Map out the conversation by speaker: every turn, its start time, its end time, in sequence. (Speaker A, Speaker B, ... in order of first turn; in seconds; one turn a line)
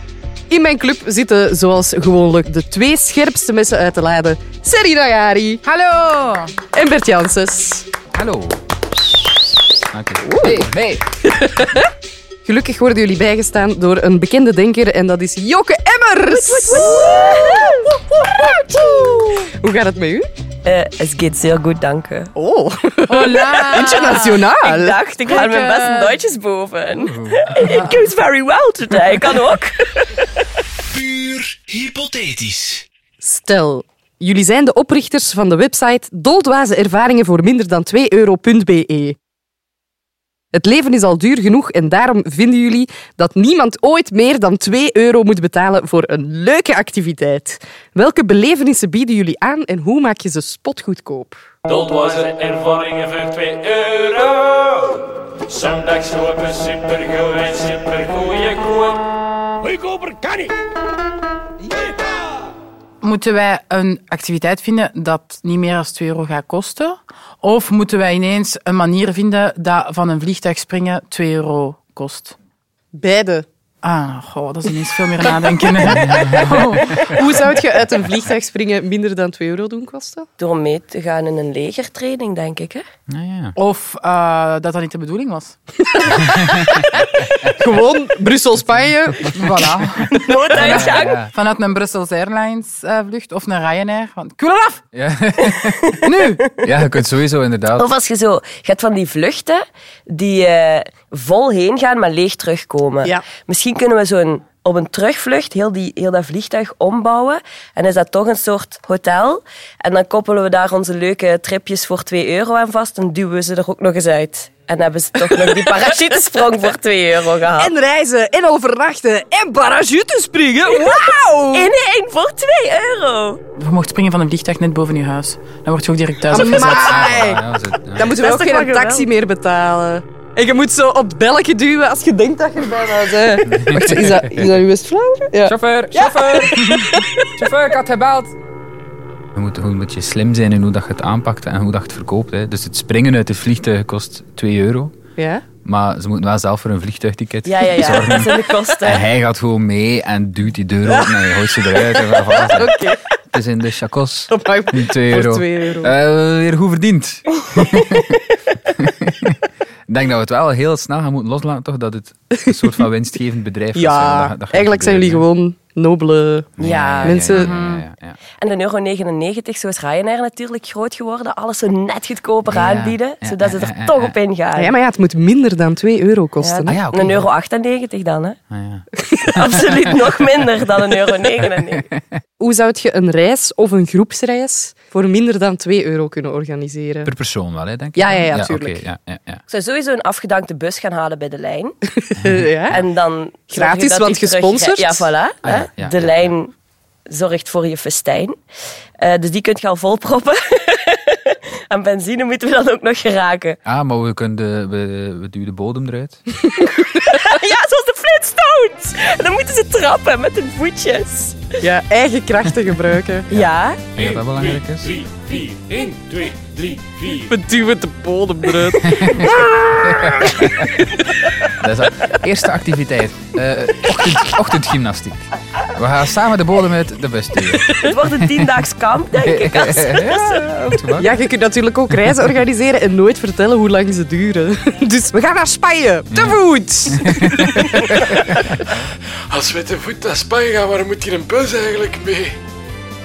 Speaker A: 0.5-5.6
Speaker B: 5.7-6.5
Speaker A: 6.7-7.9
Speaker C: 8.1-8.6
Speaker C: 9.9-11.0
Speaker A: 10.2-10.7
Speaker A: 11.2-11.9
Speaker A: 12.4-20.3
Speaker D: 16.3-17.9
Speaker D: 20.6-22.3
Speaker A: 22.4-25.0
Speaker B: 23.1-24.3
Speaker D: 23.9-30.1
Speaker B: 25.3-26.1
Speaker C: 26.9-27.6
Speaker A: 32.2-39.2
Speaker A: 40.5-51.5
Speaker E: 51.7-59.0
Speaker B: 63.0-72.4
Speaker A: 72.9-73.5
Speaker B: 73.8-76.9
Speaker C: 76.1-76.5
Speaker A: 77.0-80.3
Speaker D: 80.4-82.8
Speaker C: 83.1-83.6
Speaker B: 83.6-85.6
Speaker A: 85.9-86.8
Speaker C: 86.3-87.0
Speaker A: 87.5-89.4
Speaker B: 89.3-94.8
Speaker C: 89.4-89.9
Speaker D: 90.1-91.2
Speaker C: 90.5-91.3
Speaker C: 94.9-96.0
Speaker B: 96.0-96.4
Speaker C: 96.6-97.9
Speaker D: 97.8-117.7
Speaker A: 115.3-115.7
Speaker A: 117.6-121.7
Speaker D: 120.7-123.4
Speaker B: 123.6-127.0
Speaker A: 126.3-127.4
Speaker C: 126.5-128.1
Speaker A: 128.0-137.2
Speaker D: 128.0-129.1
Speaker C: 133.5-134.5
Speaker C: 135.4-136.8
Speaker C: 137.4-138.3
Speaker C: 139.3-144.9
Speaker A: 145.2-145.4
Speaker C: 145.7-152.7
Speaker D: 147.5-149.1
Speaker A: 151.9-153.0
Speaker C: 153.3-165.3
Speaker A: 154.3-155.9
Speaker A: 163.7-166.5
Speaker C: 166.6-168.2
Speaker D: 166.6-167.4
Speaker A: 167.0-167.6
Speaker D: 168.4-174.7
Speaker C: 172.5-174.2
Speaker A: 174.6-176.8
Speaker D: 176.4-178.4
Speaker C: 176.7-177.3
Speaker C: 178.5-178.8
Speaker D: 179.3-181.9
Speaker C: 179.5-179.9
Speaker C: 181.7-182.2
Speaker A: 182.4-187.1
Speaker C: 187.1-189.4
Speaker A: 187.9-188.8
Speaker D: 189.5-191.8
Speaker A: 192.0-192.8
Speaker C: 192.3-192.9
Speaker D: 192.7-196.5
Speaker A: 193.5-195.1
Speaker C: 195.4-196.3
Speaker D: 197.1-198.4
Speaker D: 199.0-203.6
Speaker C: 203.7-206.2
Speaker D: 206.9-211.5
Speaker A: 211.6-213.3
Speaker C: 213.3-215.1
Speaker D: 213.3-213.8
Speaker A: 217.0-220.0
Speaker C: 218.8-220.8
Speaker C: 221.6-227.7
Speaker D: 227.8-230.8
Speaker C: 229.2-231.1
Speaker A: 230.9-237.8
Speaker C: 236.1-238.9
Speaker F: 239.9-241.9